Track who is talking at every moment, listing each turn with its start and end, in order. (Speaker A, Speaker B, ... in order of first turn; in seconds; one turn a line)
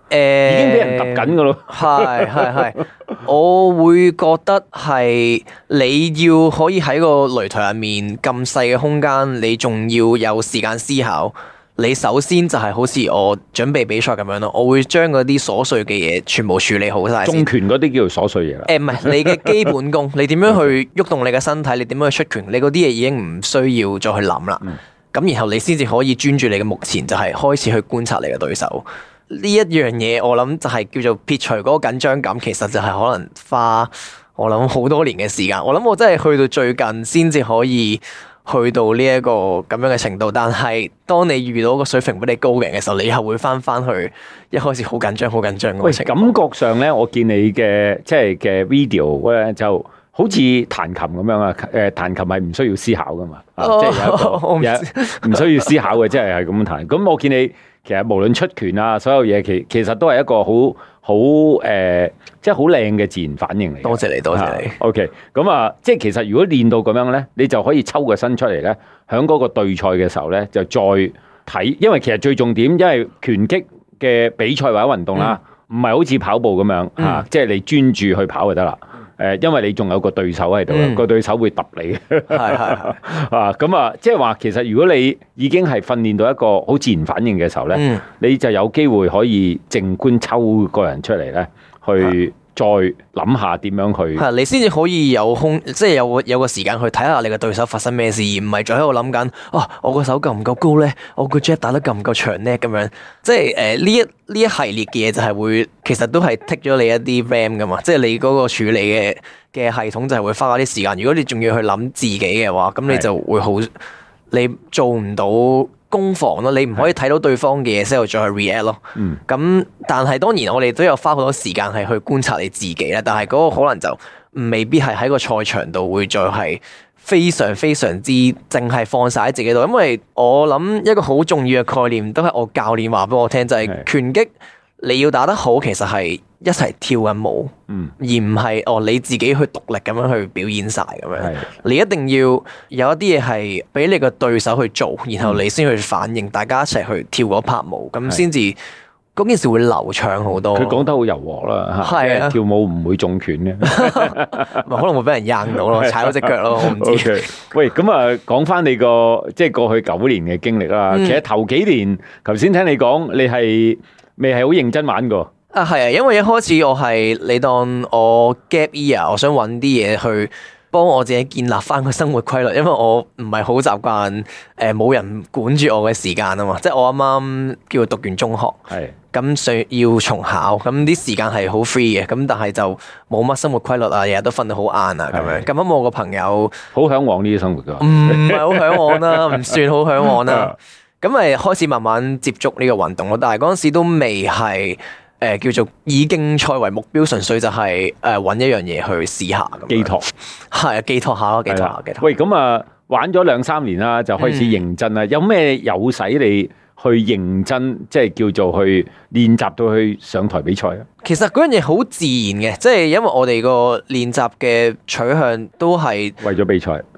Speaker A: 0.1-17.5
Speaker B: 0.5-2.7
Speaker B: 17.2-19.7
Speaker A: 18.7-46.3
Speaker B: 45.8-94.2
Speaker A: 53.6-55.7
Speaker A: 63.8-64.8
Speaker A: 80.7-81.0
Speaker A: 82.3-83.0
Speaker A: 87.7-88.0
Speaker A: 94.2-113.7
Speaker A: 114.3-148.6
Speaker B: 141.2-141.5
Speaker A: 149.2-150.8
Speaker B: 150.5-154.7
Speaker A: 151.8-152.4
Speaker A: 153.6-157.3
Speaker B: 155.5-165.3
Speaker A: 160.9-161.2
Speaker A: 165.5-186.6
Speaker B: 185.1-185.5
Speaker B: 186.7-190.5
Speaker A: 187.8-202.1
Speaker B: 199.7-200.1
Speaker B: 201.5-210.9
Speaker A: 204.2-204.6
Speaker A: 211.0-216.2
Speaker B: 216.2-216.8